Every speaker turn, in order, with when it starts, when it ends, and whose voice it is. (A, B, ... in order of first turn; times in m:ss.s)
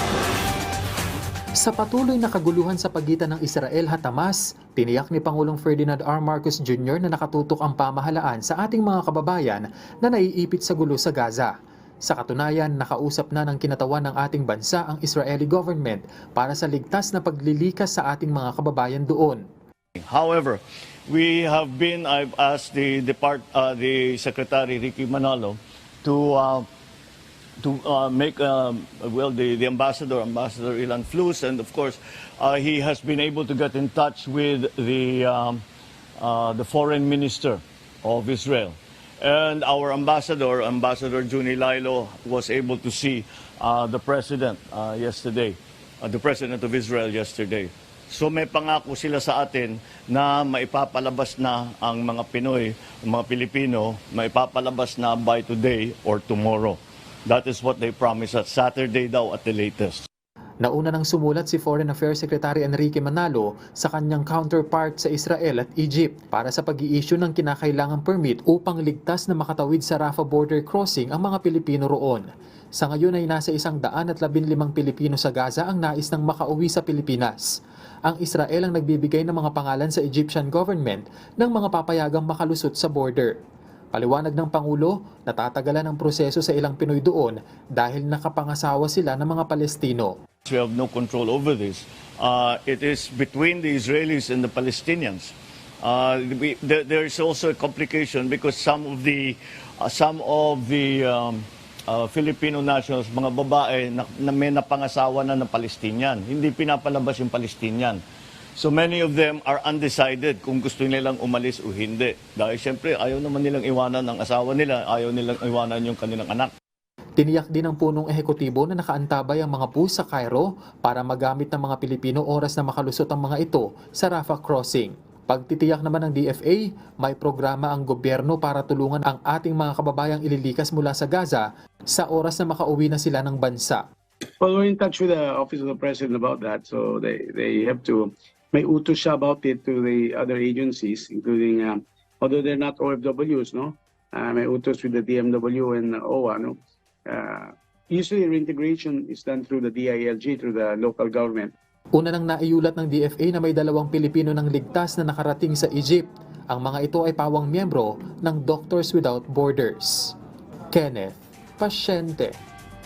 0:01.6-0:11.5 A
0:12.1-0:19.4 A
0:20.0-0:26.7 B
0:27.6-0:35.6 B
0:36.2-1:00.0 B
1:00.6-1:12.3 A
1:12.8-1:17.5 A
1:18.1-1:23.4 A
1:23.9-1:30.2 A
1:30.5-1:48.0 B
1:48.6-1:56.5 B
1:57.2-2:13.8 A
2:14.4-2:31.5 C
2:32.0-2:40.1 A
2:40.7-2:42.3 A